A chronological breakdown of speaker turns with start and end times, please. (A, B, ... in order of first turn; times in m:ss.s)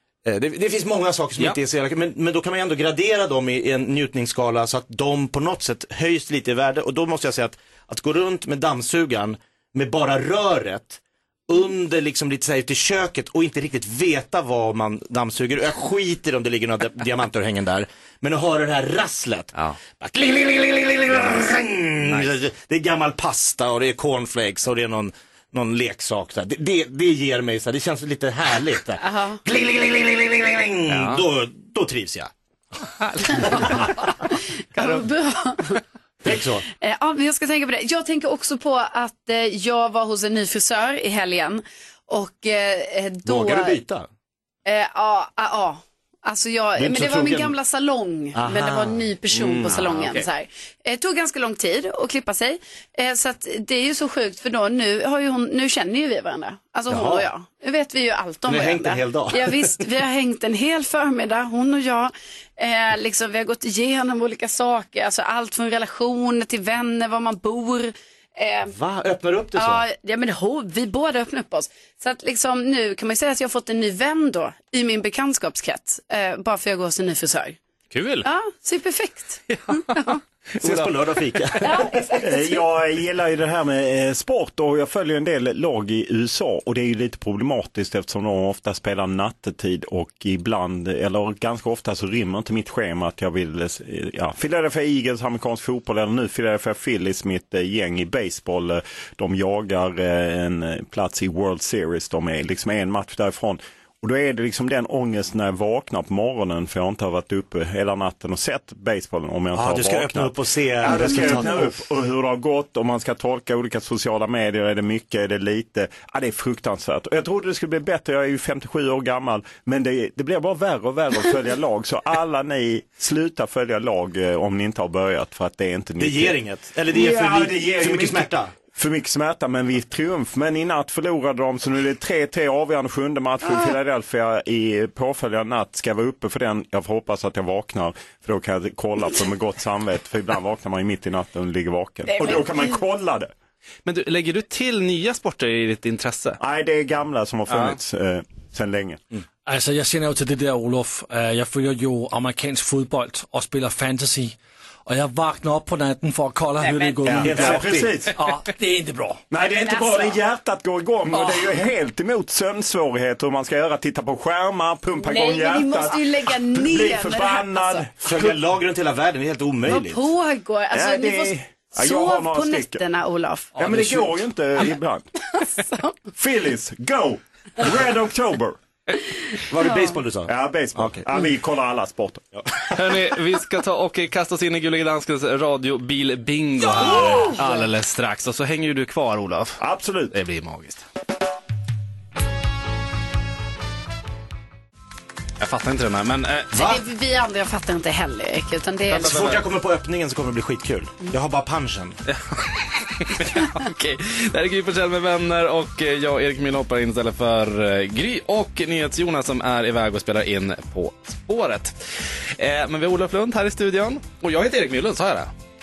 0:00.2-0:32.3 A
0:22.1-0:22.4 B
0:29.0-0:29.4 C
0:30.9-0:31.2 B
0:33.1-0:33.8 B
0:33.3-0:35.8 C
0:36.2-0:36.6 A
0:36.8-0:43.8 C
0:43.2-0:44.1 A
0:44.7-1:08.7 C
0:46.8-0:47.6 A
0:48.3-0:50.2 A
0:56.9-0:57.3 A
0:58.5-0:59.8 A
1:08.7-1:09.8 A
1:09.6-1:17.6 C
1:17.9-1:18.3 B
1:18.2-1:20.2 C
1:19.5-1:20.9 B
1:20.6-1:21.9 A
1:21.6-1:22.6 C
1:22.1-2:06.4 D
1:49.5-1:51.8 A
2:06.0-2:08.5 A
2:06.9-2:23.3 D
2:22.1-2:22.8 C
2:23.8-2:26.4 B
2:26.4-2:29.0 D
2:27.5-2:27.8 B
2:29.5-2:39.2 E
2:36.6-2:37.0 C
2:37.0-2:38.1 D
2:37.1-2:38.0 A
2:39.3-2:48.4 D
2:39.5-2:40.2 C
2:41.2-2:41.4 E
2:45.0-2:47.9 C
2:48.0-2:50.0 A
2:49.7-2:53.6 C
2:50.7-2:52.8 D
2:53.6-2:55.1 D
2:55.3-2:56.0 C
2:56.2-2:58.6 D
2:59.5-3:01.0 A
2:59.6-2:59.9 C
3:00.3-3:02.3 D
3:02.7-3:09.6 B
3:06.8-3:07.6 C
3:09.6-3:10.1 D
3:10.1-3:10.8 B
3:15.4-3:16.5 B
3:16.5-3:16.8 A
3:16.6-3:19.2 C
3:18.9-3:22.0 A
3:19.0-3:19.4 B
3:22.1-3:31.8 B
3:32.4-3:35.3 B